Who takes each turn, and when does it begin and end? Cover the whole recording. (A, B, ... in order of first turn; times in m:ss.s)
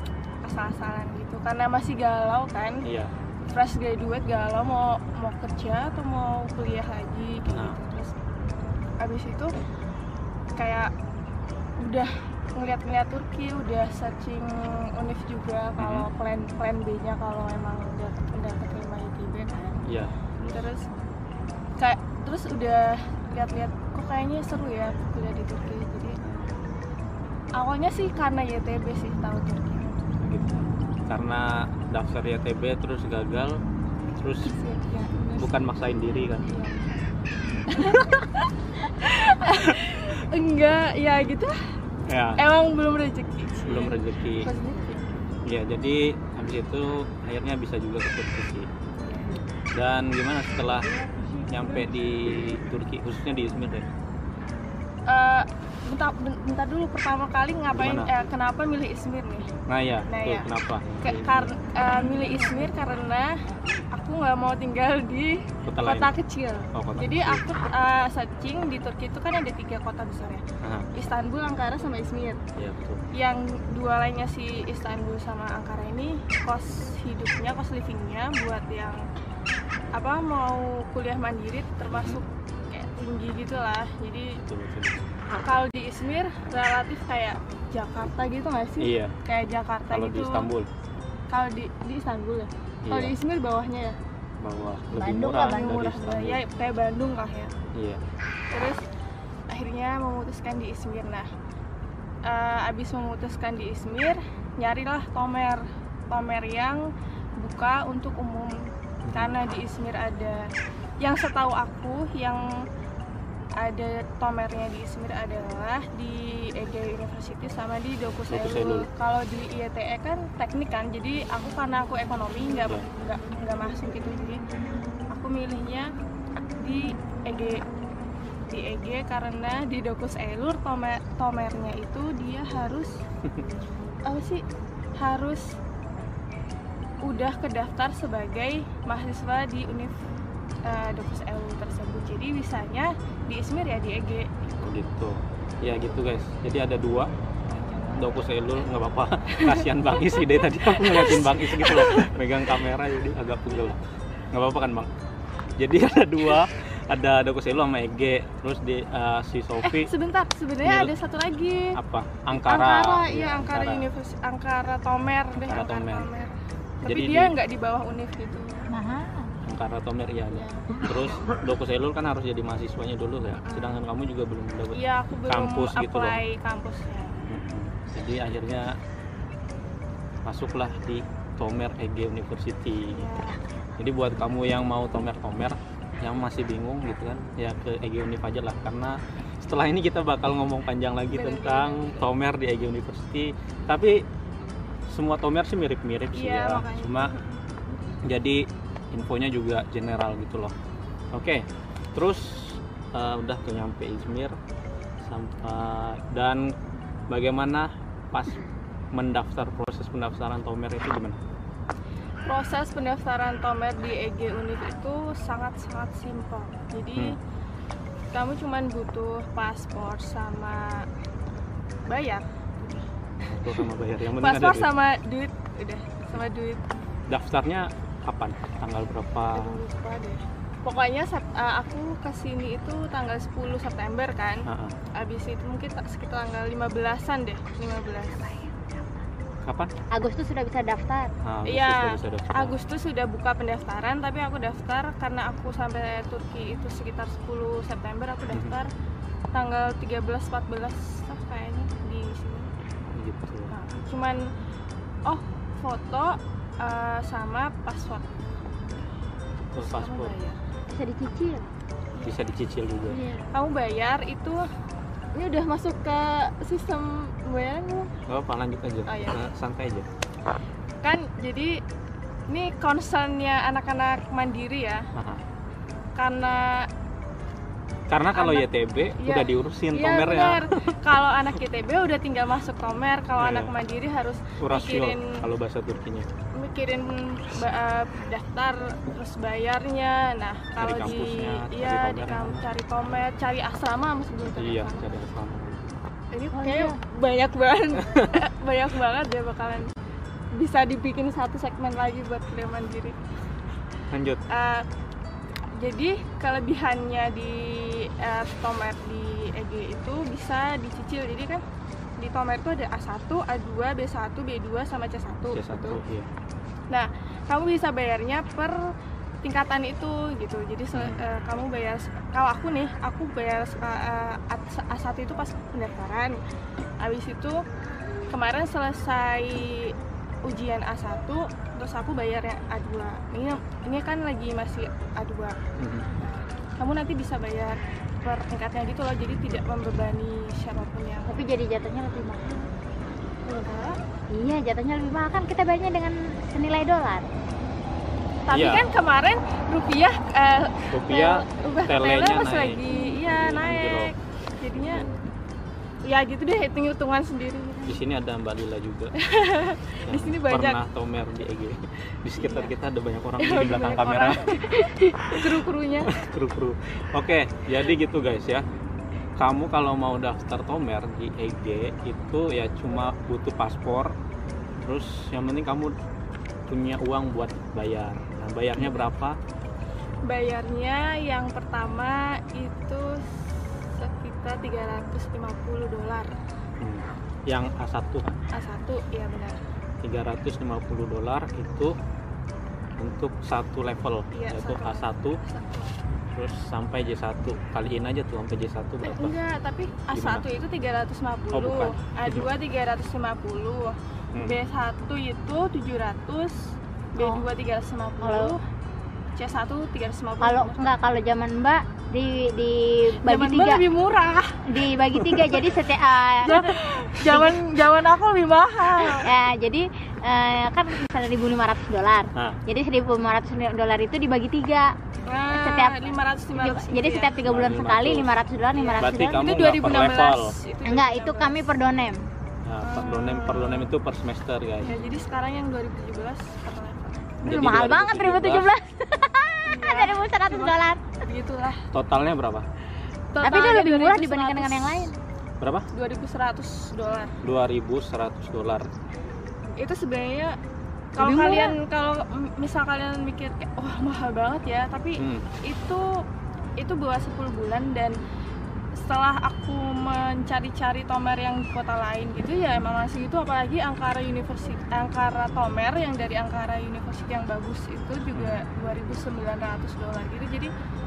0:00.4-0:02.8 A
0:02.8-0:03.1 B
0:03.5-0:08.2 A
0:07.5-0:07.8 B
0:09.0-0:09.5 A
0:10.6-0:10.9 A
0:11.8-0:19.8 A
0:15.8-0:16.1 B
0:19.8-0:20.6 B
0:20.5-0:20.8 A
0:21.8-0:26.2 A
0:26.2-0:26.6 B
0:27.6-0:29.9 A
0:30.2-0:33.6 B
0:34.2-0:34.5 B
0:34.5-0:35.5 A
0:35.4-0:36.5 B
0:36.4-0:36.8 A
0:37.7-0:41.8 A
0:42.1-0:42.4 B
0:42.4-0:45.2 A
0:43.7-0:44.5 B
0:45.4-0:48.7 B
0:49.7-0:50.9 B
0:51.5-0:53.9 B
0:55.1-0:59.5 A
0:57.7-0:58.1 B
0:59.7-1:01.5 B
1:00.1-1:00.5 A
1:01.0-1:03.3 A
1:03.9-1:12.4 A
1:05.6-1:06.1 B
1:06.7-1:07.4 B
1:10.6-1:10.9 B
1:12.6-1:13.0 B
1:13.1-1:19.0 A
1:19.9-1:24.4 A
1:21.9-1:22.2 B
1:24.4-1:25.0 B
1:25.4-1:30.5 A
1:28.8-1:29.1 B
1:29.9-1:30.7 B
1:31.3-1:34.0 A
1:32.8-1:33.1 B
1:34.4-1:36.4 B
1:34.9-1:35.8 C
1:35.4-1:37.5 A
1:37.8-1:38.0 B
1:38.5-1:38.8 A
1:39.5-1:41.3 A
1:42.2-1:52.5 A
1:49.1-1:49.3 B
1:53.6-2:04.4 A
1:58.3-1:58.9 B
2:05.1-2:05.9 A
2:06.6-2:07.6 A
2:08.5-2:13.0 A
2:14.1-2:14.4 A
2:15.0-2:15.6 A
2:17.0-2:20.0 A
2:20.6-2:24.3 A
2:24.6-2:27.1 B
2:27.6-2:27.9 A
2:27.9-2:33.8 B
2:29.3-2:29.7 A
2:30.7-2:32.1 A
2:34.3-2:34.9 B
2:35.6-2:39.9 B
2:39.6-2:41.8 A
2:40.6-2:40.9 B
2:41.8-2:43.9 B
2:42.3-2:48.7 A
2:45.4-2:46.1 B
2:46.8-2:47.3 B
2:48.7-2:49.3 C
2:49.4-2:56.2 B
2:50.3-2:51.2 A
2:53.4-2:53.8 A
2:54.7-2:57.2 A
2:57.3-2:58.7 B
3:00.2-3:03.1 B
3:02.9-3:03.4 A
3:03.8-3:14.0 B
3:11.1-3:11.9 A
3:14.9-3:17.1 B
3:16.1-3:17.2 A
3:18.0-3:20.5 B
3:21.1-3:24.4 B
3:25.1-3:26.5 B
3:27.1-3:31.2 B
3:32.2-3:37.2 A
3:38.1-3:40.9 A
3:41.9-3:42.8 A
3:43.2-3:44.7 B
3:44.2-3:46.6 A
3:47.1-3:49.6 B
3:49.3-3:58.5 A
3:54.5-3:54.8 B
3:59.4-3:59.7 B
3:59.9-4:01.1 C
4:01.2-4:02.6 B
4:01.5-4:08.7 A
4:09.3-4:12.5 A
4:12.9-4:13.5 B
4:13.5-4:14.3 A
4:15.0-4:18.1 A
4:19.5-4:20.1 B
4:19.6-4:20.4 A
4:20.7-4:21.5 C
4:22.0-4:23.0 B
4:22.9-4:23.2 C
4:23.3-4:24.5 A
4:25.1-4:27.9 A
4:28.1-4:29.9 B
4:28.9-4:29.2 A
4:30.8-4:31.6 A
4:32.3-4:34.9 A
4:35.0-4:35.2 B
4:36.0-4:36.7 A
4:37.9-4:40.8 B
4:38.1-4:38.5 A
4:39.0-4:45.2 A
4:43.2-4:43.5 B
4:44.4-4:46.1 B
4:46.4-4:54.9 A
4:50.6-4:52.4 B
4:54.4-4:55.7 B
4:56.1-4:59.7 A
4:56.3-4:56.8 C
5:00.3-5:03.0 A
5:03.9-5:04.2 B
5:04.3-5:04.7 A
5:05.5-5:11.4 A
5:12.0-5:15.8 A
5:15.3-5:16.1 B
5:16.7-5:18.7 A
5:19.2-5:26.2 A
5:20.7-5:21.0 B
5:26.8-5:27.4 A
5:28.1-5:35.4 A
5:35.6-5:35.9 B
5:36.6-5:41.3 A
5:41.1-5:42.5 C
5:43.2-5:43.8 A
5:44.1-5:47.1 C
5:48.3-5:54.9 A
5:48.3-5:48.6 B
5:50.7-5:53.9 B
5:55.8-5:57.8 A
5:57.6-5:58.9 B
5:59.0-6:00.6 A
5:59.9-6:04.4 B
6:02.2-6:02.5 A
6:03.2-6:05.9 A
6:05.0-6:05.3 B
6:05.9-6:08.4 B
6:09.2-6:13.9 B
6:14.6-6:15.7 B
6:16.5-6:19.2 B
6:18.6-6:18.9 A
6:20.0-6:26.1 A
6:26.6-6:28.2 B
6:28.3-6:29.4 A
6:29.8-6:31.8 B
6:32.8-6:35.2 B
6:34.1-6:35.7 A
6:36.1-6:39.1 B
6:38.8-6:48.4 A
6:39.9-6:40.2 B
6:41.3-6:42.3 B
6:47.0-6:47.3 C
6:48.0-6:48.4 C
6:49.2-6:50.7 A
6:50.2-6:53.6 C
6:53.0-6:54.4 A
6:54.5-6:57.3 C
6:55.0-6:55.2 B
6:56.2-6:59.1 A
6:58.9-7:04.8 C
7:05.0-7:07.2 A
7:05.3-7:09.2 C
7:07.2-7:08.1 B
7:08.5-7:11.4 A
7:08.8-7:10.3 B
7:10.6-7:12.1 C
7:12.5-7:14.7 B
7:12.6-7:13.7 A
7:14.6-7:17.2 A
7:17.2-7:18.5 B
7:17.2-7:20.8 C
7:19.4-7:21.7 A
7:21.7-7:22.5 B
7:23.1-7:24.9 A
7:23.2-7:25.0 C
7:25.4-7:25.7 B
7:25.7-7:27.1 A
7:27.2-7:28.7 B
7:29.6-7:30.4 A
7:31.0-7:36.0 A
7:31.0-7:31.6 C
7:35.0-7:35.2 B
7:36.6-7:38.0 A
7:38.8-7:50.5 A
7:48.1-7:48.4 B